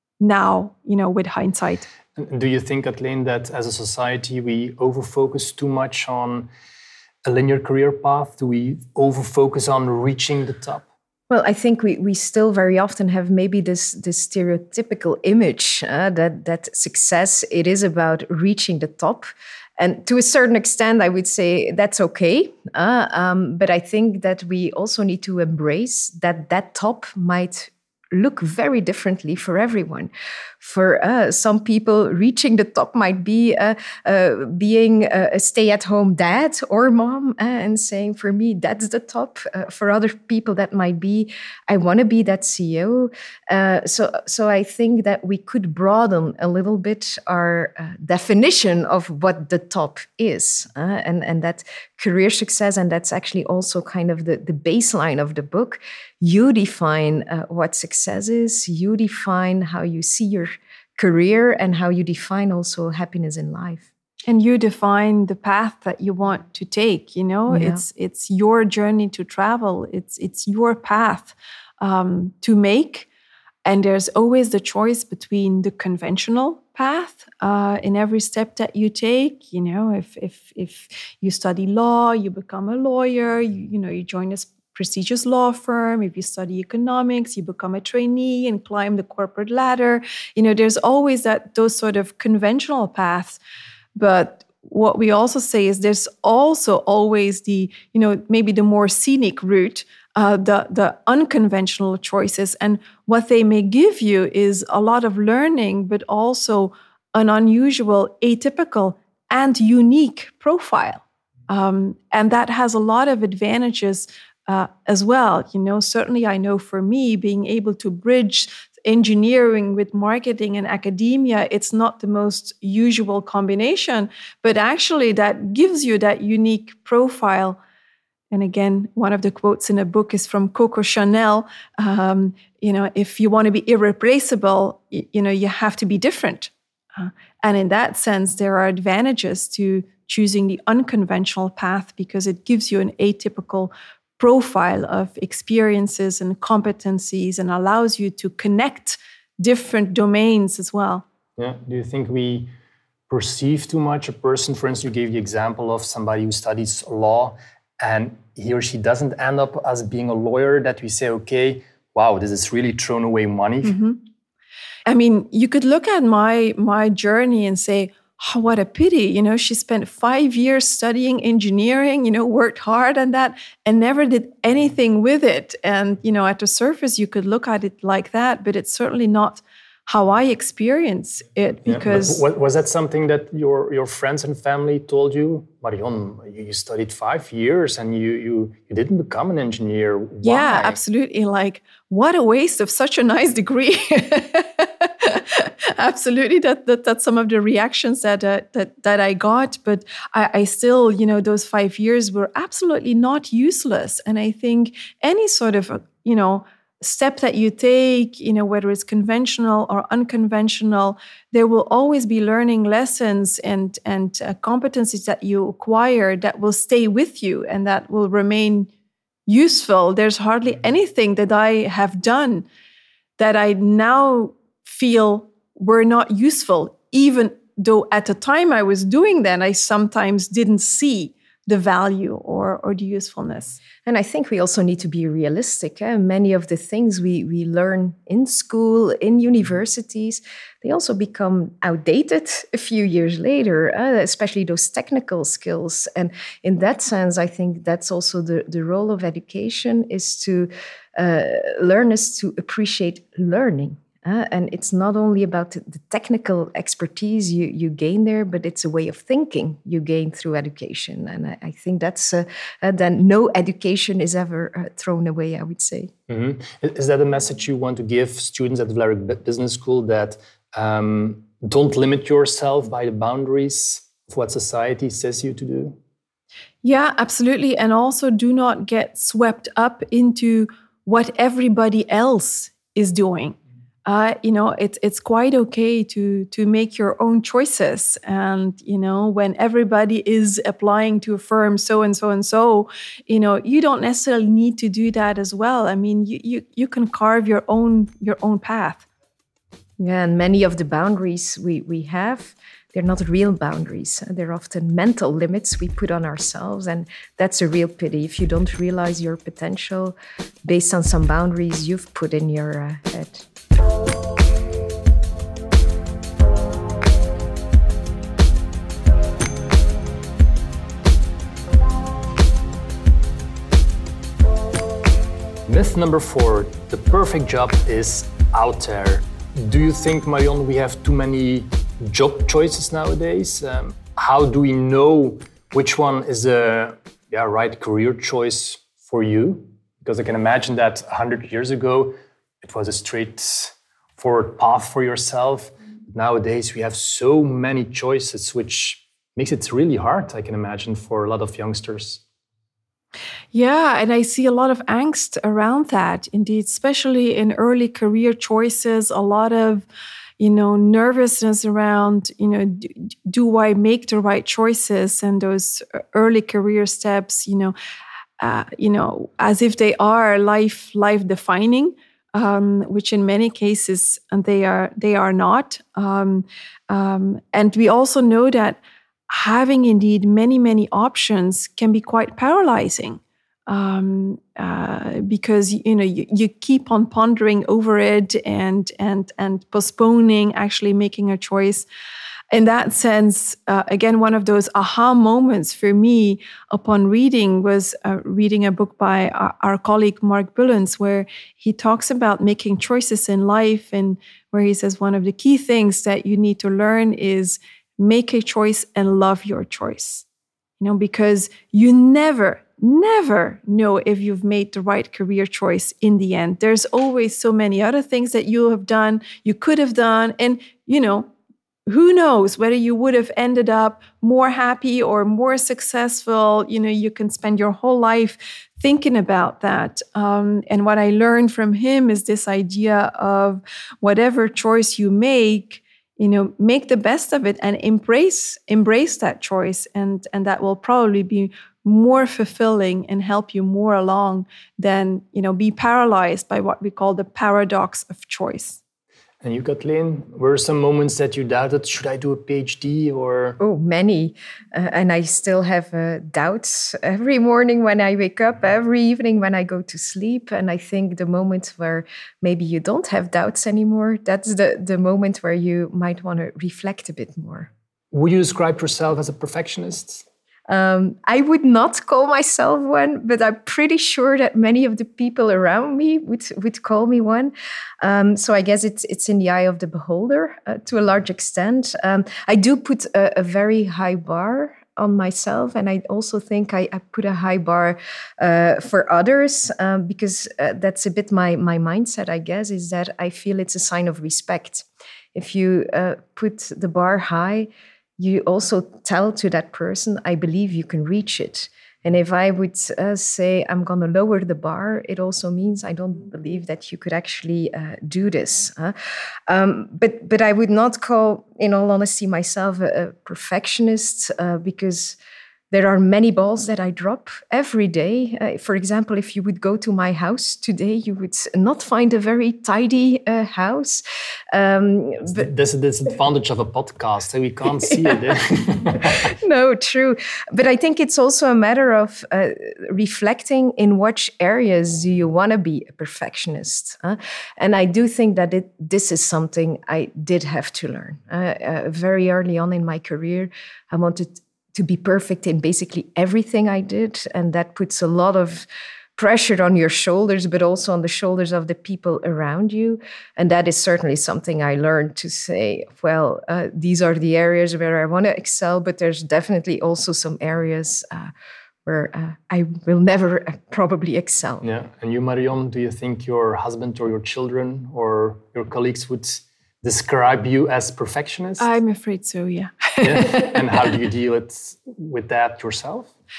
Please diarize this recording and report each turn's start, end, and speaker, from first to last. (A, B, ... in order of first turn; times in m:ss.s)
0:00.2-0:01.9 A
0:02.2-0:06.5 B
0:07.2-0:10.8 B
0:11.3-0:30.1 C
0:30.6-1:03.9 C
1:04.3-1:13.1 A
1:07.5-1:07.8 C
1:13.6-1:33.4 A
1:34.0-2:07.6 A
2:08.3-2:31.0 A
2:31.4-2:32.5 B
2:33.1-2:43.8 B
2:43.6-2:44.0 A
2:44.8-3:02.2 A
3:01.6-3:10.8 B
3:10.2-3:38.7 A
3:39.3-3:42.4 A
3:43.2-3:53.6 A
3:53.8-4:25.9 C
4:26.1-4:35.8 B
4:36.6-4:58.8 A
4:59.8-5:13.2 C
5:25.5-5:52.0 B
5:53.3-5:59.6 A
6:00.2-6:07.5 A
6:08.2-6:31.6 A
6:32.3-6:50.0 A
6:50.6-7:01.1 A
7:01.7-7:28.6 A
7:29.2-7:33.4 B
7:33.4-7:47.5 C
7:47.9-7:50.0 B
7:50.5-8:28.7 C
8:29.3-8:35.0 C
8:35.5-8:45.3 C
8:45.0-8:49.1 B
8:48.7-9:21.1 C
9:21.6-9:24.4 C
9:24.4-9:31.5 B
9:31.4-9:33.5 A
9:32.8-9:35.9 B